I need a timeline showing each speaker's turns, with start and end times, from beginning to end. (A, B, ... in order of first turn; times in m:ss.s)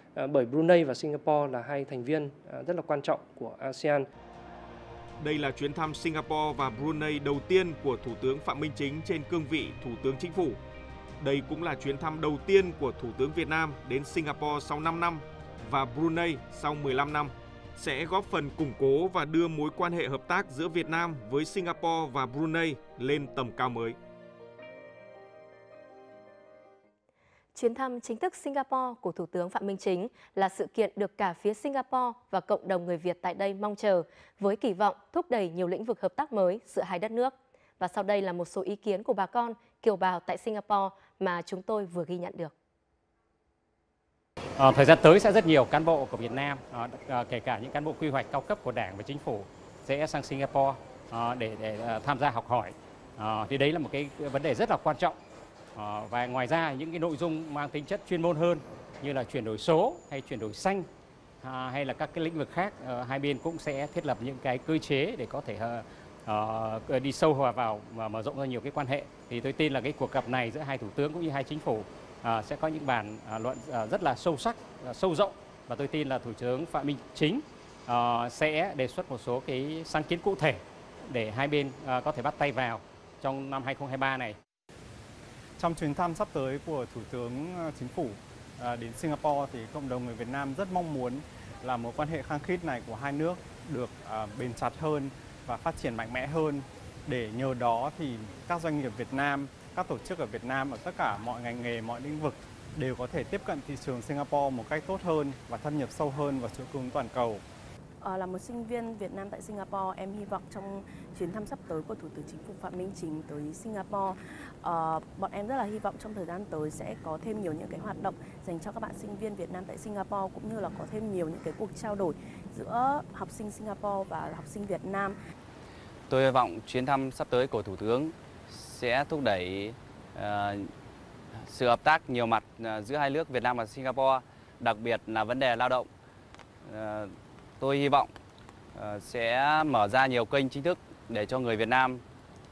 0:00.2-0:04.0 A
0:05.2-0:10.6 B
0:11.2-0:24.0 B
0:27.5-0:42.5 C
0:44.6-0:55.2 D
0:55.7-1:00.8 D
1:01.4-1:24.4 D
1:25.6-1:47.4 E
1:48.0-2:05.2 F
2:06.1-2:10.7 G
2:11.4-2:15.9 G
2:16.6-2:18.1 G
2:18.7-2:22.0 G